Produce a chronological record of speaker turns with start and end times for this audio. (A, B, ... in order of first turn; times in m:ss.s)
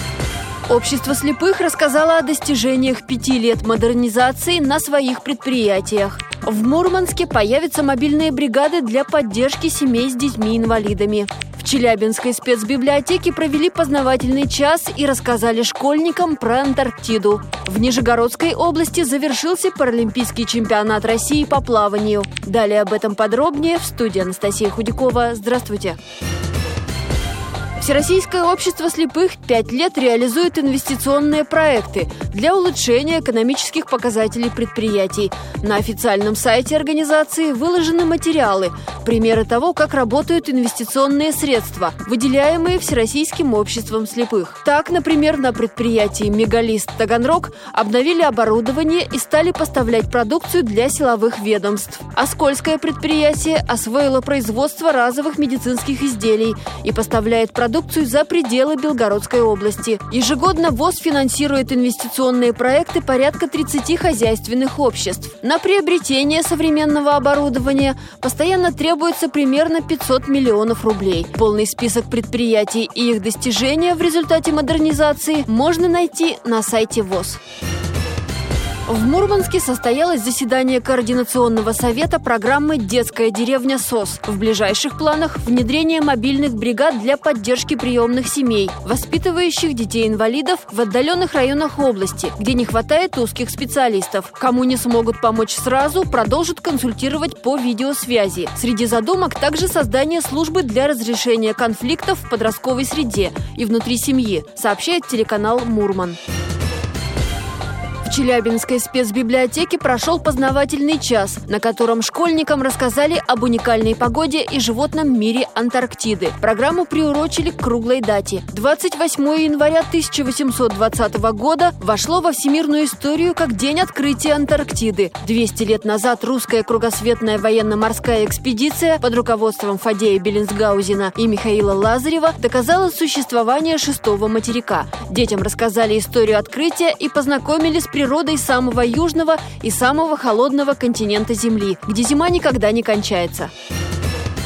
0:00.7-0:26.0 A
0:27.8-1:17.4 A
1:18.9-1:46.2 A
1:48.0-2:23.5 A